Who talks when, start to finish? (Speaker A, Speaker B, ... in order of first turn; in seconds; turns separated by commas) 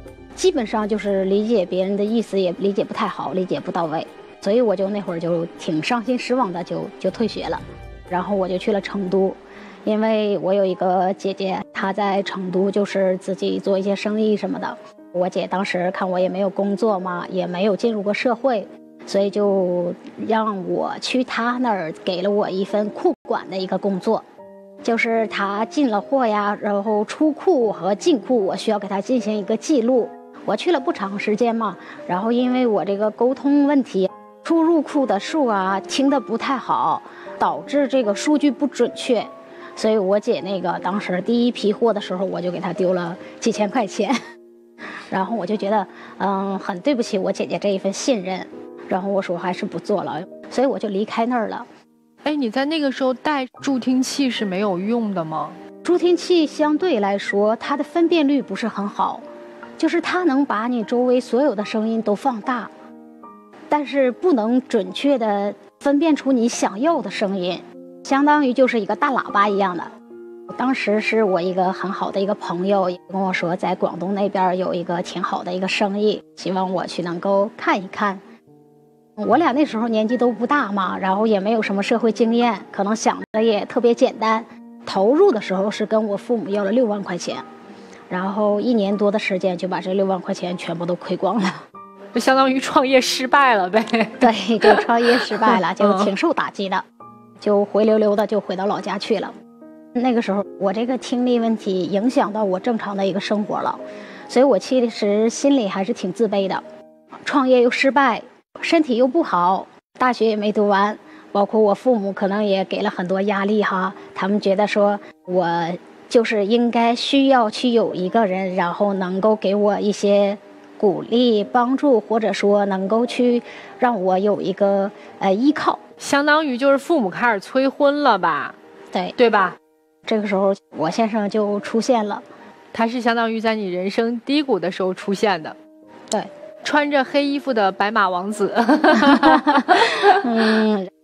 Speaker A: 0.4-24.2, Speaker A: 24.8-44.2, Speaker A: 45.1-51.7, Speaker B: 52.2-55.6, Speaker A: 55.8-59.2, Speaker A: 59.8-62.7, Speaker A: 63.7-69.9, Speaker A: 70.5-78.2, Speaker A: 79.2-87.5, Speaker A: 88.1-91.7, Speaker B: 92.1-96.1, Speaker A: 94.2-96.8, Speaker A: 97.4-99.3, Speaker A: 100.0-106.6, Speaker A: 107.3-125.8, Speaker B: 126.0-128.6, Speaker B: 129.2-129.6, Speaker A: 130.1-132.2, Speaker B: 132.7-135.6, Speaker B: 136.6-140.2, Speaker A: 138.9-140.9